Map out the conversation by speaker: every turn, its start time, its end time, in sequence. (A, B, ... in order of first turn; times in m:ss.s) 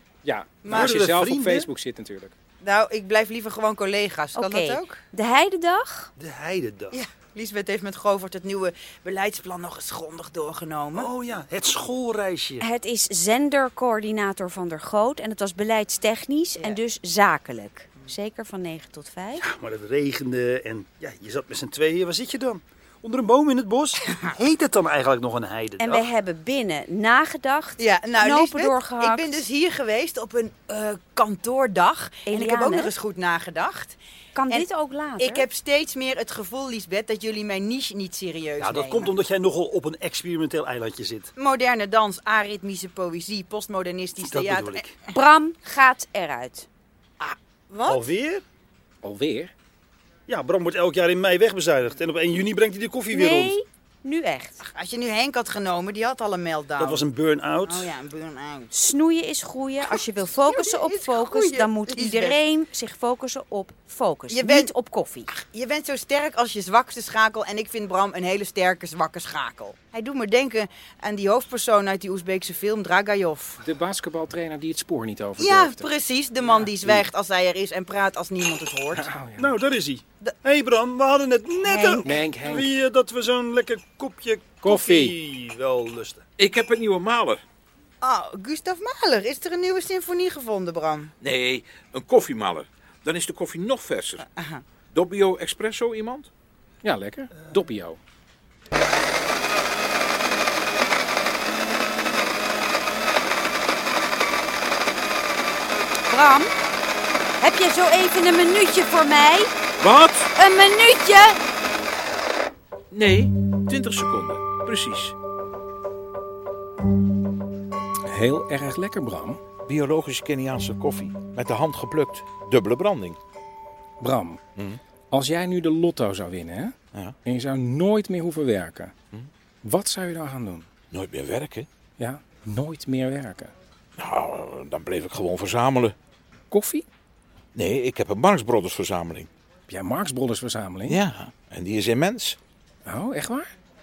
0:00.2-0:02.3 A
0:00.6-0:01.0 B
0:00.7-0:01.7 C
0:02.6-0:05.0 B
0:04.4-0:06.1 D
0:06.2-0:07.0 C
0:06.9-0:11.1 B
0:11.0-0:12.6 C
0:12.6-0:19.4 D
0:19.4-0:26.0 C
0:25.8-0:29.4 D
0:27.8-0:34.0 B
0:32.3-0:32.9 D
0:34.4-0:35.4 D
0:34.5-0:39.1 B
0:38.6-0:41.3 C
0:41.4-0:44.9 B
0:44.2-0:44.9 C
0:45.1-0:46.7 D
0:47.2-0:48.1 B
0:47.9-0:48.4 C
0:49.0-0:49.5 A
0:50.3-0:53.6 C
0:53.1-0:54.6 D
0:54.7-0:57.1 B
0:56.8-0:57.9 C
0:57.6-0:58.7 B
0:58.7-1:05.3 D
0:59.9-1:02.4 B
1:04.3-1:04.7 B
1:05.3-1:13.6 B
1:13.6-1:15.9 A
1:15.4-1:19.1 B
1:19.0-1:19.5 A
1:19.4-1:26.2 C
1:22.0-1:22.7 A
1:24.6-1:25.2 A
1:26.4-1:27.4 E
1:28.0-1:31.1 B
1:31.2-1:34.2 E
1:34.2-1:34.6 B
1:34.9-1:36.3 E
1:36.8-1:38.0 A
1:46.1-1:46.5 D
1:47.4-1:49.5 D
1:49.8-1:50.3 E
1:50.4-1:51.4 D
1:52.9-1:55.2 E
1:58.1-1:59.4 A
1:59.7-2:03.2 E
2:04.0-2:04.4 A
2:05.1-2:08.9 A
2:09.6-2:10.7 A
2:10.9-2:11.7 E
2:12.0-2:13.5 A
2:14.0-2:16.0 E
2:16.5-2:16.8 A
2:17.6-2:19.3 E
2:19.7-2:21.0 A
2:20.9-2:22.4 E
2:22.9-2:23.5 A